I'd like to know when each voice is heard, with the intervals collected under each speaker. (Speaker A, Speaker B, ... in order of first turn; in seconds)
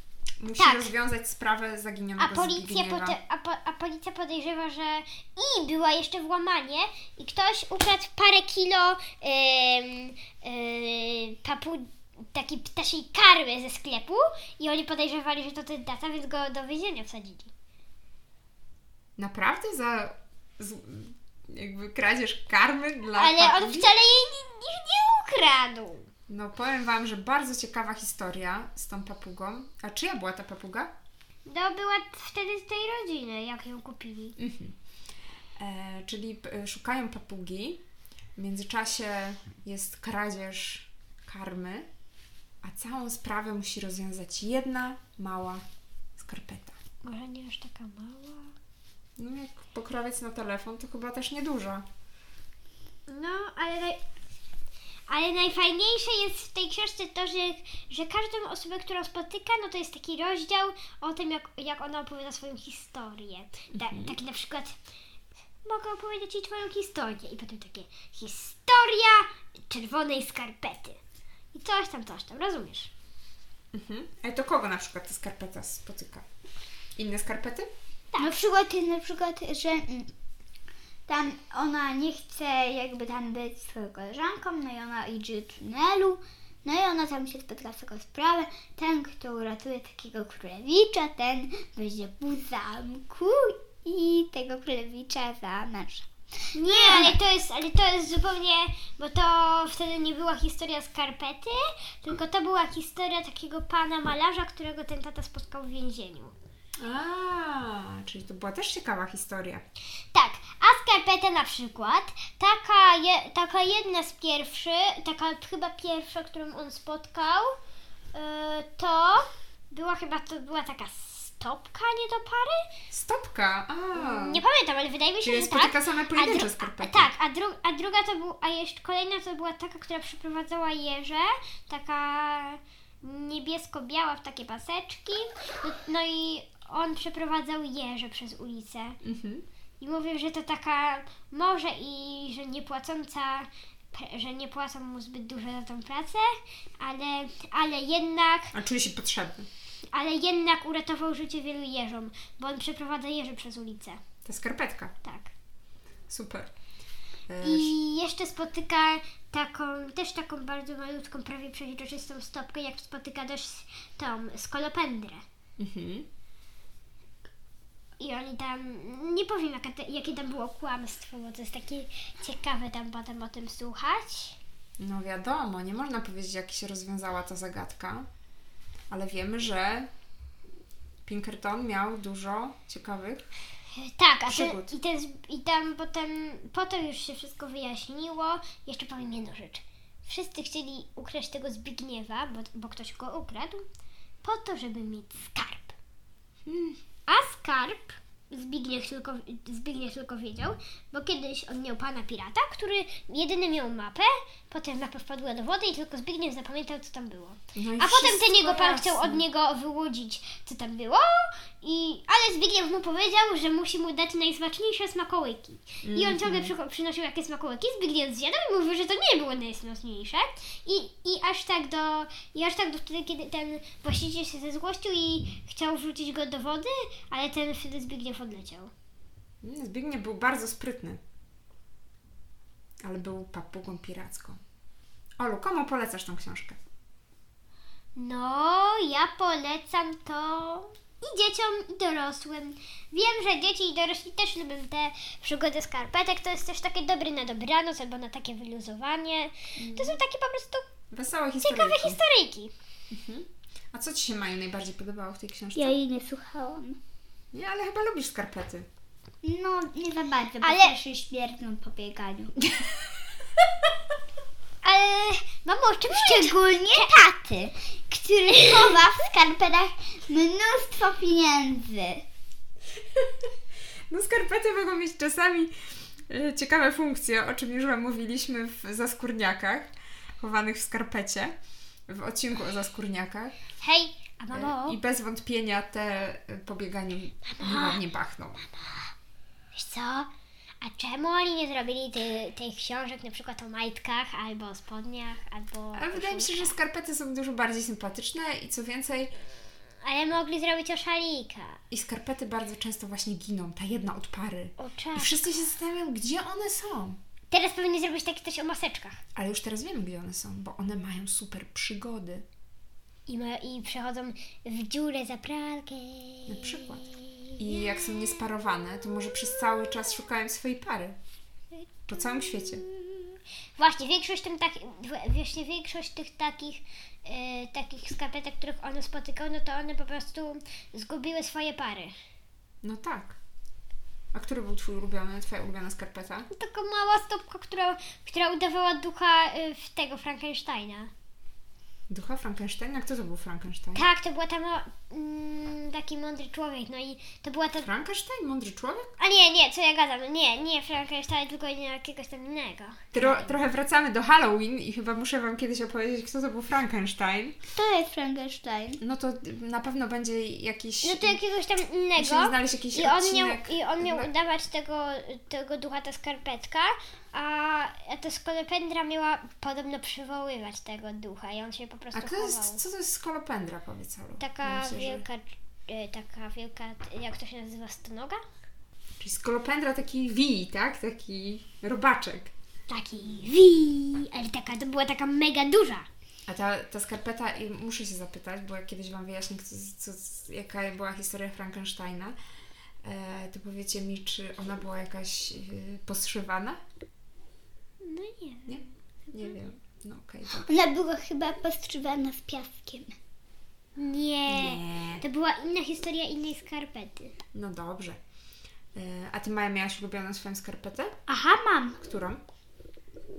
Speaker A: 0.4-3.2, 19.2-23.9, 26.3-30.9, 34.4-34.8, 35.6-37.8, 38.4-41.9, 42.6-45.6, 46.2-46.8, 49.2-51.9, 63.7-64.2, 73.7-76.2, 77.0-77.7, 106.8-109.6, 122.9-124.4, 125.2-127.1, 139.0-139.4, 148.5-149.5, 154.2-154.9, 156.1-156.5, 157.3-157.7, 165.6-166.1, 174.8-178.1, 178.9-179.9, 181.1-183.3, 184.3-184.8, 196.5-196.8, 207.6-209.2, 215.8-216.5, 229.4-231.0, 232.8-234.4, 235.2-236.6, 249.6-250.0, 250.9-252.0, 252.9-255.8, 257.3-258.7, 273.9-275.5, 276.1-279.7, 280.2-281.4, 281.9-283.4, 284.3-288.4, 295.7-299.1, 301.7-307.0, 309.2-312.2, 316.3-316.8, 317.4-321.0, 321.9-322.6, 332.6-333.2, 334.1-336.3, 341.9-343.8, 347.6-348.9, 352.9-357.4, 358.8-361.2, 362.0-364.1, 371.9-375.1, 379.0-382.3, 386.3-392.2, 392.8-396.6, 398.5-400.5, 404.3-405.0, 407.3-408.0, 408.8-410.9, 411.8-412.2
Speaker B: 0.6-0.9, 2.2-17.5, 23.1-26.1, 31.5-34.4, 47.0-48.5, 53.1-54.0, 55.1-64.8, 65.6-71.0, 71.5-72.9, 96.5-106.3, 110.1-117.5, 118.1-122.7, 123.9-139.0, 139.8-148.5, 149.9-154.0, 155.0-155.3, 157.4-165.2, 168.0-174.4, 183.8-193.7, 194.2-195.8, 197.1-228.7, 237.9-250.7, 251.4-252.5, 260.4-260.8, 264.6-267.0, 268.3-268.8, 283.6-284.8, 287.3-287.8, 288.4-288.9, 289.5-290.1, 290.6-296.6, 299.8-301.6, 304.6-305.3, 307.3-309.0, 313.1-317.3, 322.5-331.9, 336.3-340.9, 343.8-347.7, 349.0-353.4, 360.8-372.6, 374.2-378.2, 382.7-385.9, 397.8-399.4, 403.8-407.1
Speaker C: 78.2-80.1, 81.1-97.2, 255.6-256.8, 259.2-262.4, 265.9-272.1, 357.6-358.8, 400.4-402.9, 411.1-411.8